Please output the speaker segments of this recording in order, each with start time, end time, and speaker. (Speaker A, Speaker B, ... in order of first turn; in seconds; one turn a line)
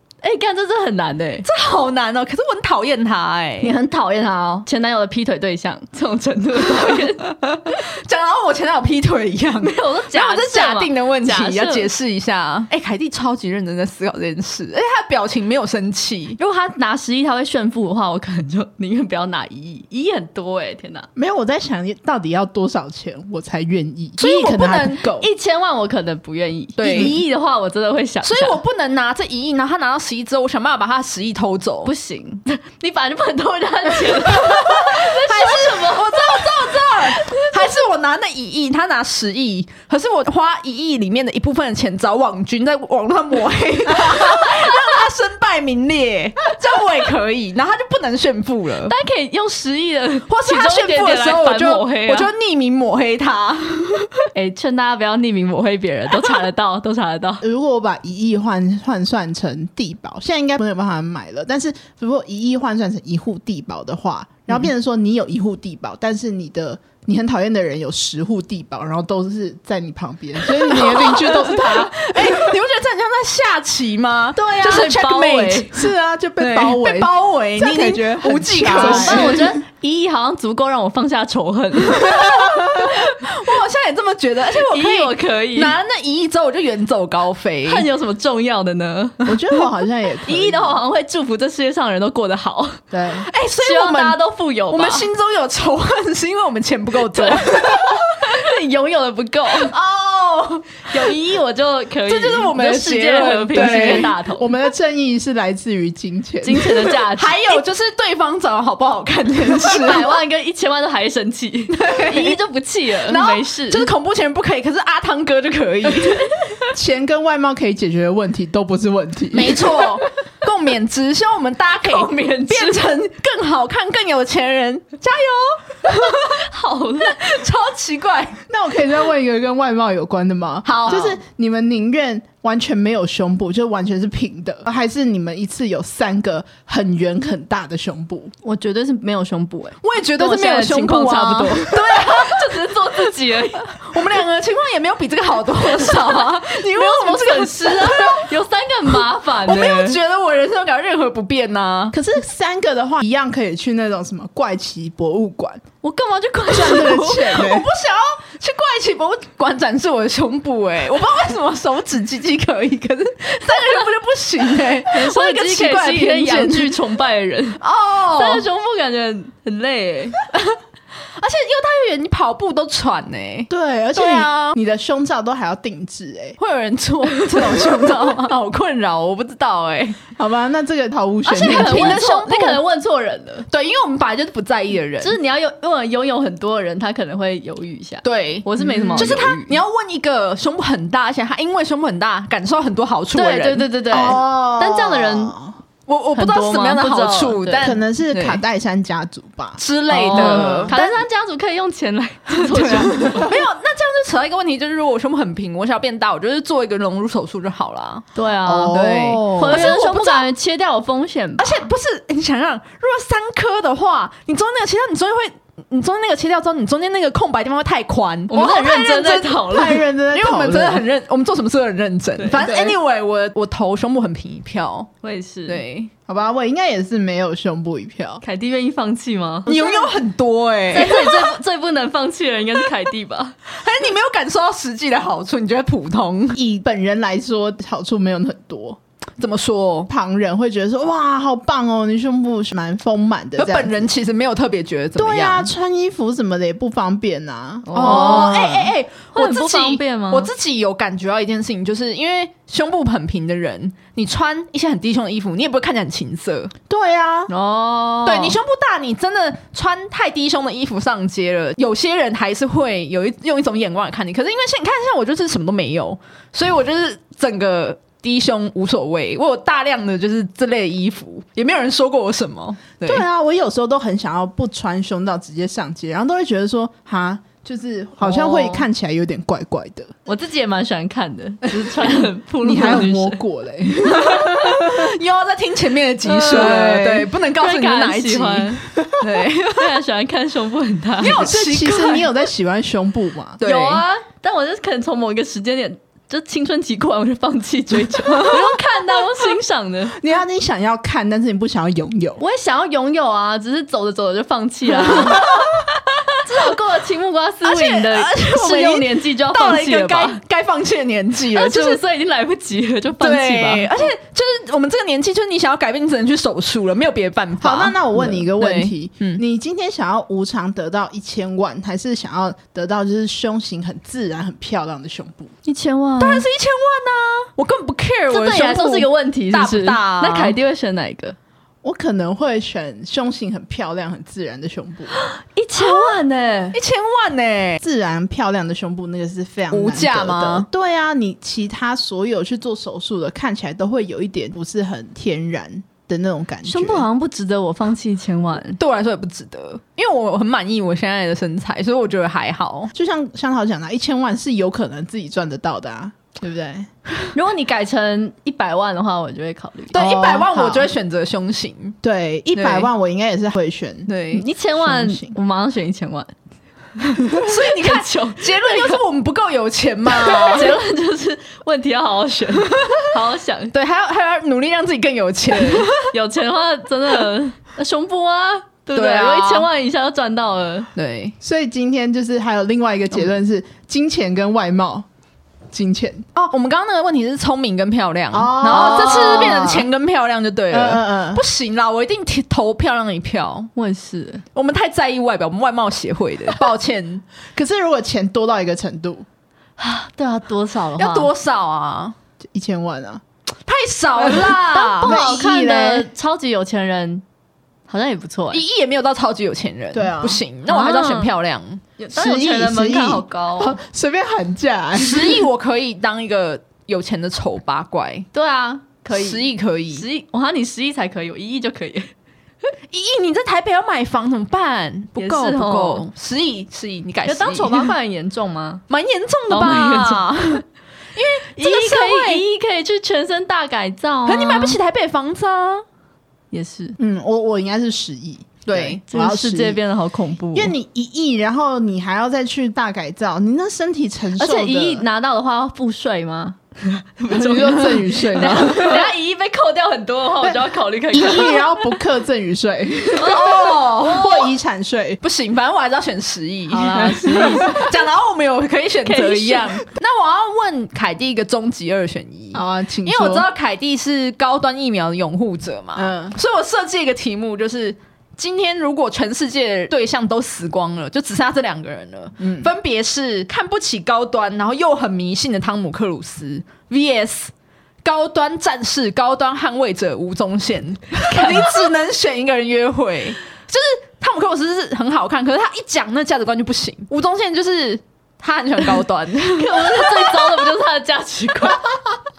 Speaker A: 0.2-1.5
Speaker B: 1.4-3.7
Speaker A: 3.6-7.3
Speaker B: 6.7-16.4
Speaker A: 9.6-11.9
Speaker A: 16.4-21.1
Speaker C: 21.1-25.3
Speaker B: 24.2-25.1
Speaker A: 25.1-28.6
Speaker B: 26.8-27.2
Speaker C: 26.8-27.1
Speaker B: 28.2-31.9
Speaker A: 31.8-37.8
Speaker B: 34.2-48.9
Speaker A: 44.2-44.9
Speaker A: 48.9-52.3
Speaker B: 50.3-54.3
Speaker A: 54.3-57.4
Speaker C: 57.4-72.6
Speaker B: 70.4-75.8
Speaker A: 74.3-75.7
Speaker C: 75.7-79.6
Speaker B: 76.4-79.4
Speaker A: 78.7-83.2
Speaker B: 82.0-87.8
Speaker A: 84.5-85.8
Speaker A: 87.7-89.3
Speaker C: 89.2-90.8
Speaker A: 90.2-92.8
Speaker C: 92.9-93.3
Speaker B: 93.3-98.1
Speaker A: 93.6-95.1
Speaker A: 97.1-99.7
Speaker B: 99.7-101.1
Speaker A: 100.9-104.5
Speaker B: 102.0-104.1
Speaker C: 103.5-106.9
Speaker A: 106.4-107.6
Speaker B: 107.1-110.1
Speaker A: 109.7-113.9
Speaker B: 111.7-112.4
Speaker B: 113.0-116.3
Speaker C: 116.7-119.6
Speaker B: 119.3-126.4
Speaker A: 121.8-122.9
Speaker A: 125.9-127.2
Speaker B: 127.0-128.4
Speaker C: 128.5-138.3
Speaker B: 130.6-131.2
Speaker A: 138.4-143.9
Speaker B: 139.8-143.1
Speaker B: 143.7-148.3
Speaker A: 145.8-150.0
Speaker B: 148.9-152.0
Speaker C: 151.9-155.6
Speaker A: 155.8-157.4
Speaker C: 156.5-157.7
Speaker B: 156.7-166.8
Speaker A: 164.9-167.6
Speaker B: 167.6-168.5
Speaker A: 168.1-170.3
Speaker B: 171.2-174.6
Speaker C: 173.5-176.4
Speaker B: 176.4-180.0
Speaker A: 177.2-177.7
Speaker C: 180.2-182.0
Speaker A: 181.2-183.4
Speaker B: 181.3-182.6
Speaker B: 183.5-185.2
Speaker A: 185.0-189.6
Speaker B: 188.0-194.2
Speaker C: 188.6-189.2
Speaker A: 193.1-195.3
Speaker C: 193.9-195.5
Speaker B: 195.9-198.4
Speaker A: 196.1-197.7
Speaker C: 197.6-201.0
Speaker B: 199.6-200.7
Speaker A: 199.9-203.3
Speaker B: 202.5-208.1
Speaker C: 202.7-203.3
Speaker A: 208.1-211.7
Speaker C: 208.4-209.7
Speaker B: 208.7-210.3
Speaker B: 211.4-224.9
Speaker A: 218.3-219.9
Speaker C: 219.5-220.8
Speaker A: 222.2-222.4
Speaker C: 222.3-222.8
Speaker A: 225.0-225.6
Speaker B: 225.5-225.9
Speaker C: 226.1-228.2
Speaker A: 228.2-229.5
Speaker C: 229.5-229.9
Speaker B: 229.5-231.3
Speaker A: 230.7-233.3
Speaker B: 233.5-236.4
Speaker C: 236.3-238.8
Speaker B: 239.2-239.9
Speaker C: 239.9-243.8
Speaker B: 243.4-245.5
Speaker C: 245.0-248.7
Speaker A: 247.6-248.5
Speaker B: 247.7-256.5
Speaker A: 249.1-250.3
Speaker C: 256.7-257.3
Speaker A: 257.3-258.4
Speaker B: 258.1-273.0
Speaker C: 272.8-279.9
Speaker A: 278.0-278.7
Speaker A: 280.1-283.2
Speaker C: 282.4-284.9
Speaker B: 283.9-289.7
Speaker A: 286.1-286.8
Speaker C: 286.1-287.1
Speaker A: 287.3-288.6
Speaker A: 289.5-291.2
Speaker B: 291.0-292.1
Speaker C: 291.0-293.4
Speaker B: 293.4-293.8
Speaker A: 293.4-300.0
Speaker B: 298.2-298.4
Speaker C: 300.0-302.2
Speaker A: 302.2-305.5
Speaker B: 305.1-305.3
Speaker A: 306.1-310.2
Speaker B: 307.4-311.8
Speaker A: 311.3-313.9
Speaker B: 313.0-319.2
Speaker C: 317.4-325.3
Speaker A: 325.4-326.2
Speaker B: 326.0-330.4
Speaker A: 328.1-331.1
Speaker C: 331.6-334.9
Speaker A: 334.9-336.6
Speaker B: 335.6-337.6
Speaker C: 337.6-346.8
Speaker B: 339.5-340.5
Speaker A: 346.4-348.6
Speaker B: 348.6-352.7
Speaker C: 352.7-356.7
Speaker A: 357.1-359.8
Speaker B: 359.7-361.8
Speaker C: 359.7-360.7
Speaker C: 361.8-363.9
Speaker B: 362.3-362.7
Speaker B: 363.9-364.2
Speaker A: 364.1-366.1
Speaker C: 364.6-365.1
Speaker A: 366.8-368.8
Speaker B: 367.1-370.6
Speaker A: 369.9-373.5
Speaker B: 373.5-375.9
Speaker A: 375.3-380.7
Speaker B: 378.7-379.5
Speaker B: 380.7-381.1
Speaker C: 381.2-384.9
Speaker C: 385.5-386.1
Speaker B: 386.1-393.5
Speaker C: 388.1-389.7
Speaker A: 388.4-389.5
Speaker C: 390.5-391.2
Speaker A: 393.6-394.2
Speaker B: 394.3-397.0
Speaker C: 397.3-399.1
Speaker A: 399.6-401.1
Speaker B: 400.8-401.9
Speaker C: 402.2-403.0
Speaker B: 403.4-405.0
Speaker C: 404.0-405.9
Speaker A: 404.5-407.0
Speaker A: 407.7-408.4
Speaker B: 408.3-411.6
Speaker C: 409.7-410.2
Speaker A: 410.4-411.1
Speaker A: 411.8-413.6
Speaker C: 411.9-415.3
Speaker B: 414.7-418.1
Speaker A: 418.1-421.9
Speaker B: 418.9-419.8
Speaker B: 422.7-427.7
Speaker A: 425.0-425.9
Speaker A: 427.0-428.6
Speaker B: 428.7-430.4
Speaker A: 429.3-430.3
Speaker B: 430.9-432.2
Speaker A: 431.4-434.6
Speaker B: 434.1-435.6
Speaker A: 436.3-436.8
Speaker C: 436.8-439.6
Speaker B: 438.4-438.8
Speaker A: 438.9-440.5
Speaker C: 440.3-444.9
Speaker A: 444.2-451.7
Speaker C: 447.1-448.9
Speaker C: 450.9-455.0
Speaker A: 453.0-454.3
Speaker B: 453.0-454.2
Speaker B: 455.0-477.3
Speaker A: 456.5-457.7
Speaker C: 456.6-457.6
Speaker A: 458.8-459.6
Speaker C: 462.3-463.3
Speaker C: 465.8-466.1
Speaker C: 472.2-472.5
Speaker B: 477.8-490.4
Speaker A: 489.4-491.8